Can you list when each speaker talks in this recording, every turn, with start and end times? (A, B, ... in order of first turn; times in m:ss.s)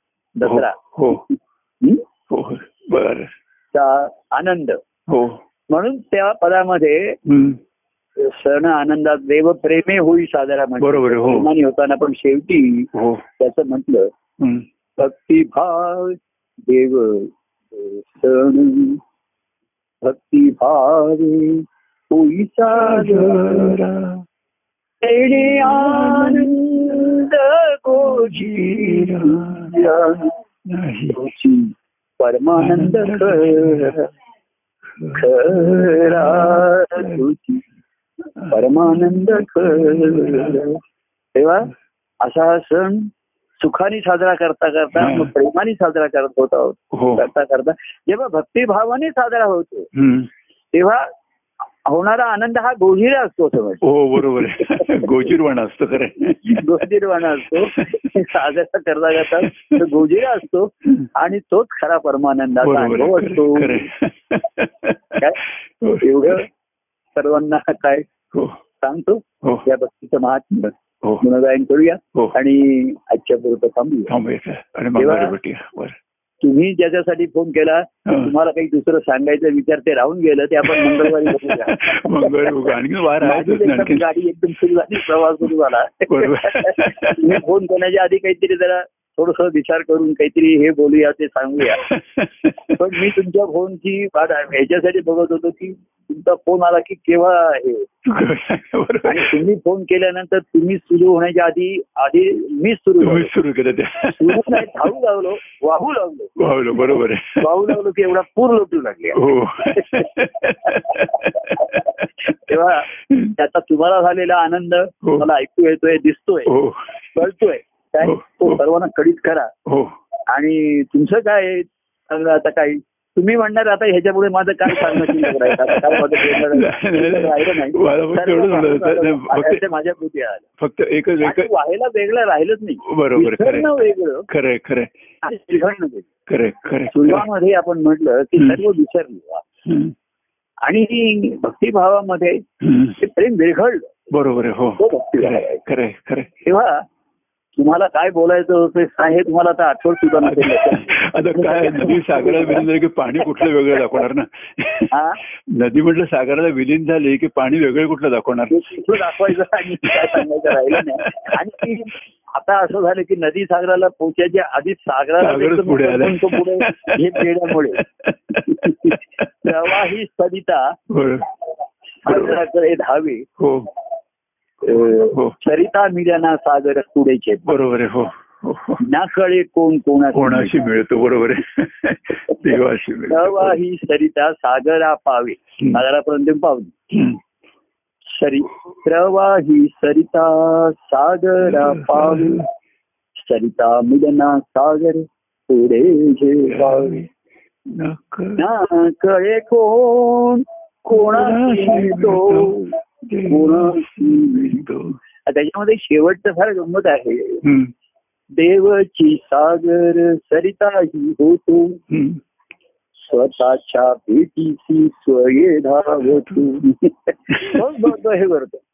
0:00.4-0:01.2 A
0:00.4-0:01.2 B
0:02.3-0:03.3 B
0:03.7-0:04.8 A
0:05.1-0:05.4 B
0:05.7-0:07.2 A
0:07.2-0:07.6 B
0:08.2-0:14.1 A
0:10.8-0:11.5 B
0:12.9-0:13.2 B
0:14.4-0:14.6 B
0:15.0-0:19.0 A
0:20.0-0:23.8 A
0:22.7-0:24.2 B
0:25.0-0:30.3 A
0:25.5-0:27.2 B
0:28.0-0:29.8 B
0:30.6-0:31.2 B
0:31.1-0:34.1 A
0:32.5-0:34.0 B
0:34.9-0:37.2 B
0:35.1-0:37.6 A
0:38.4-0:40.6 B
0:38.5-0:40.8 A
0:41.3-0:49.9 A
0:44.9-0:45.3 B
0:46.9-0:47.2 B
0:49.9-0:50.3 B
0:50.7-0:51.0 A
0:51.8-0:55.0 A
0:53.8-0:56.7 B
0:56.4-1:03.8 A
0:57.4-0:58.2 B
0:59.2-1:00.0 B
1:02.6-1:05.2 B
1:05.8-1:06.4 B
1:06.0-1:06.5 A
1:07.1-1:08.1 A
1:08.8-1:14.1 A
1:14.1-1:16.0 B
1:15.0-1:15.3 A
1:16.4-1:31.8 A
1:18.0-1:18.3 B
1:20.7-1:24.1 B
1:24.9-1:25.4 B
1:26.1-1:27.4 B
1:31.6-1:33.1 B
1:32.7-1:37.9 A
1:38.0-1:39.4 B
1:39.1-1:43.3 A
1:43.0-1:44.7 B
1:44.2-1:46.9 A
1:46.4-1:47.7 B
1:47.4-1:56.5 A
1:49.1-1:52.3 B
1:52.9-1:53.3 B
1:56.5-1:57.0 B
1:57.1-1:59.5 A
1:58.0-1:58.6 B
1:59.6-1:59.9 B
2:00.3-2:10.4 A
2:04.6-2:09.6 B
2:10.6-2:11.5 B
2:11.2-2:14.3 A
2:12.8-2:14.9 B
2:15.2-2:16.1 A
2:16.3-2:17.3 B
2:16.9-2:19.4 A
2:18.4-2:18.6 B
2:19.6-2:19.9 B
2:20.6-2:22.4 A
2:22.6-2:23.0 B
2:23.0-2:24.0 A
2:24.1-2:26.3 B
2:24.8-2:25.6 A
2:26.4-2:26.8 A
2:27.6-2:32.6 A
2:30.2-2:34.9 B
2:33.2-2:33.5 A
2:34.9-2:35.2 A
2:35.5-2:41.4 B
2:38.5-2:47.8 A
2:45.2-2:49.9 B
2:48.4-2:50.8 A
2:50.9-2:51.2 B
2:52.0-2:53.2 A
2:52.1-2:52.4 B
2:53.4-2:53.7 B
2:54.6-2:57.6 A
2:54.6-2:55.3 B
2:57.4-2:58.8 B
2:58.8-3:00.5 A
3:00.1-3:03.6 B
3:03.1-3:06.7 A
3:06.9-3:07.2 B
3:08.1-3:12.5 A
3:11.4-3:12.5 B
3:13.2-3:16.9 A
3:16.5-3:17.1 B
3:17.7-3:18.4 B
3:18.4-3:22.7 A
3:20.9-3:25.0 B
3:23.3-3:24.6 A
3:25.2-3:27.4 A
3:27.4-3:27.7 B
3:28.4-3:31.8 A
3:31.9-3:32.2 B
3:33.0-3:38.6 A
3:36.0-3:36.4 B
3:37.3-3:37.7 B